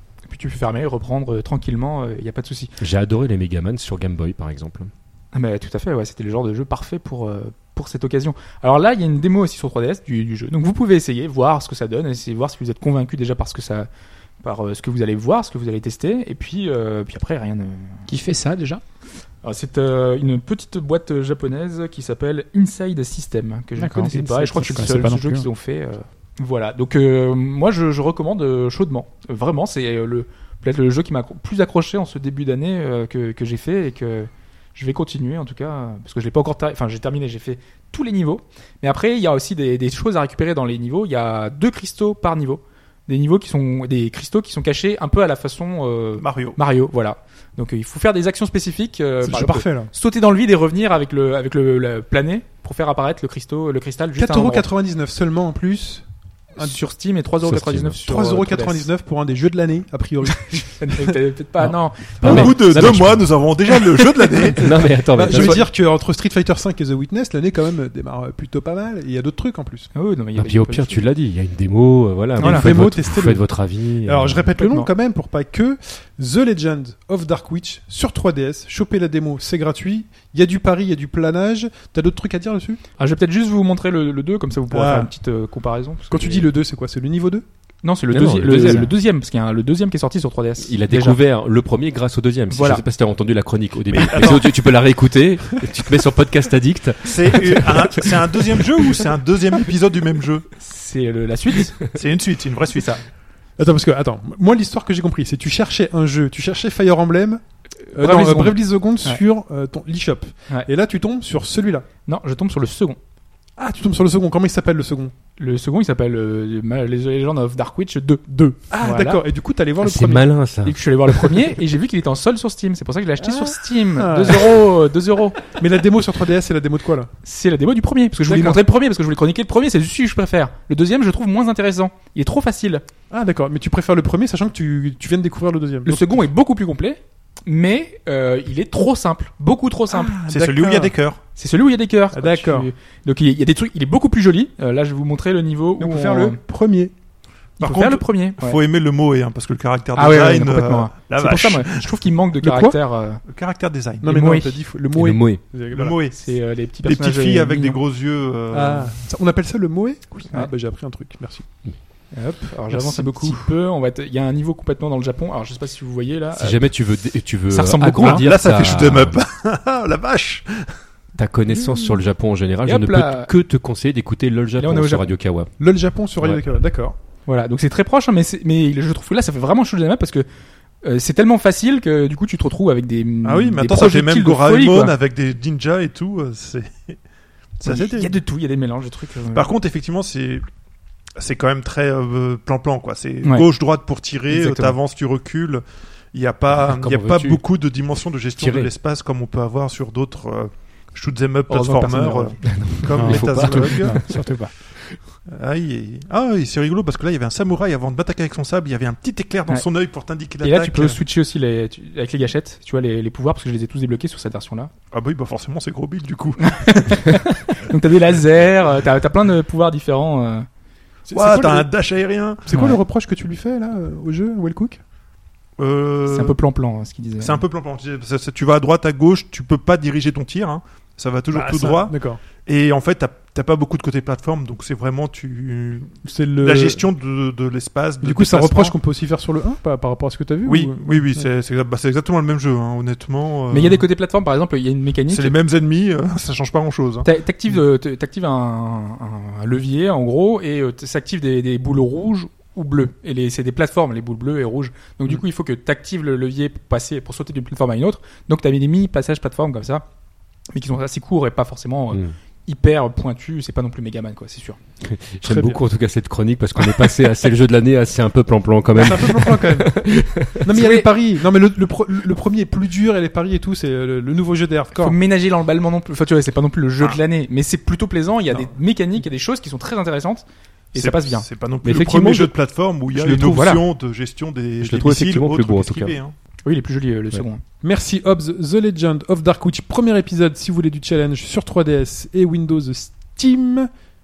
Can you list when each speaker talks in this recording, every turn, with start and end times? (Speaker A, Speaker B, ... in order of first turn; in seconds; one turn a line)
Speaker A: 0.3-2.7
Speaker B: 2.8-4.9
Speaker A: 5.3-13.9
Speaker A: 14.4-18.1
Speaker C: 18.1-18.8
Speaker A: 19.4-54.7
Speaker C: 23.8-25.5
Speaker D: 46.2-46.6
Speaker E: 49.2-49.9
Speaker E: 54.1-56.0
Speaker A: 56.5-58.9
Speaker B: 57.4-58.0
Speaker E: 58.1-61.0
Speaker A: 60.4-62.6
Speaker B: 61.6-63.3
Speaker D: 62.2-64.7
Speaker E: 62.3-63.0
Speaker E: 64.2-69.9
Speaker B: 64.6-65.6
Speaker A: 69.9-71.0
Speaker B: 70.3-74.5
Speaker E: 72.4-82.8
Speaker A: 72.4-72.7
Speaker A: 74.6-74.9
Speaker A: 83.0-86.5
Speaker E: 84.7-85.1
Speaker E: 86.1-87.5
Speaker A: 87.8-91.2
Speaker B: 88.1-88.9
Speaker B: 90.6-99.0
Speaker A: 92.5-92.8
Speaker D: 93.9-94.6
Speaker D: 97.0-100.5
Speaker A: 100.5-101.9
Speaker D: 101.9-103.0
Speaker A: 102.7-103.0
Speaker E: 103.6-111.8
Speaker A: 107.9-109.2
Speaker A: 112.0-113.0
Speaker E: 113.6-115.1
Speaker A: 115.4-119.2
Speaker E: 118.3-120.3
Speaker B: 119.8-121.5
Speaker A: 120.6-125.5
Speaker E: 123.2-124.6
Speaker E: 125.5-127.1
Speaker A: 127.2-132.8
Speaker E: 128.2-128.6
Speaker E: 133.1-136.2
Speaker A: 135.8-146.4
Speaker D: 140.2-141.2
Speaker E: 140.3-140.8
Speaker E: 142.1-142.7
Speaker E: 145.8-146.9
Speaker A: 147.6-148.6
Speaker D: 147.6-151.9
Speaker A: 149.9-153.2
Speaker E: 152.4-152.8
Speaker D: 153.3-154.1
Speaker E: 154.0-156.0
Speaker A: 154.0-154.6
Speaker B: 154.9-155.4
Speaker D: 155.7-158.9
Speaker A: 156.1-157.8
Speaker E: 158.5-161.4
Speaker A: 162.1-166.6
Speaker E: 162.7-163.5
Speaker B: 166.3-169.2
Speaker A: 167.5-168.3
Speaker D: 168.0-170.7
Speaker B: 171.2-175.5
Speaker A: 172.6-173.3
Speaker A: 174.6-175.1
Speaker E: 175.6-176.9
Speaker B: 176.2-176.4
Speaker A: 177.3-180.2
Speaker A: 180.8-184.9
Speaker D: 183.2-187.0
Speaker D: 187.6-188.2
Speaker A: 187.6-189.5
Speaker D: 189.3-190.4
Speaker D: 191.2-204.1
Speaker A: 194.3-194.8
Speaker B: 196.5-197.4
Speaker B: 198.4-198.7
Speaker A: 201.5-202.8
Speaker B: 202.4-204.2
Speaker C: 203.0-204.5
Speaker D: 205.3-211.0
Speaker A: 210.4-214.7
Speaker D: 214.9-217.1
Speaker A: 216.4-220.5
Speaker E: 221.1-221.7
Speaker D: 221.1-222.5
Speaker E: 222.4-224.8
Speaker D: 225.6-226.4
Speaker A: 226.1-227.4
Speaker D: 227.2-238.8
Speaker E: 231.3-232.2
Speaker E: 236.0-236.9
Speaker E: 238.0-241.2
Speaker D: 240.4-243.8
Speaker A: 243.5-245.3
Speaker D: 245.1-247.1
Speaker A: 247.0-259.8
Speaker A: 260.5-264.6
Speaker B: 264.8-270.4
Speaker E: 265.2-265.6
Speaker E: 268.8-269.8
Speaker E: 270.3-275.0
Speaker A: 270.5-270.9
Speaker A: 274.8-281.2
Speaker D: 280.7-286.1
Speaker B: 281.6-282.3
Speaker A: 282.9-283.6
Speaker B: 284.6-285.9
Speaker A: 286.4-287.4
Speaker E: 287.6-293.7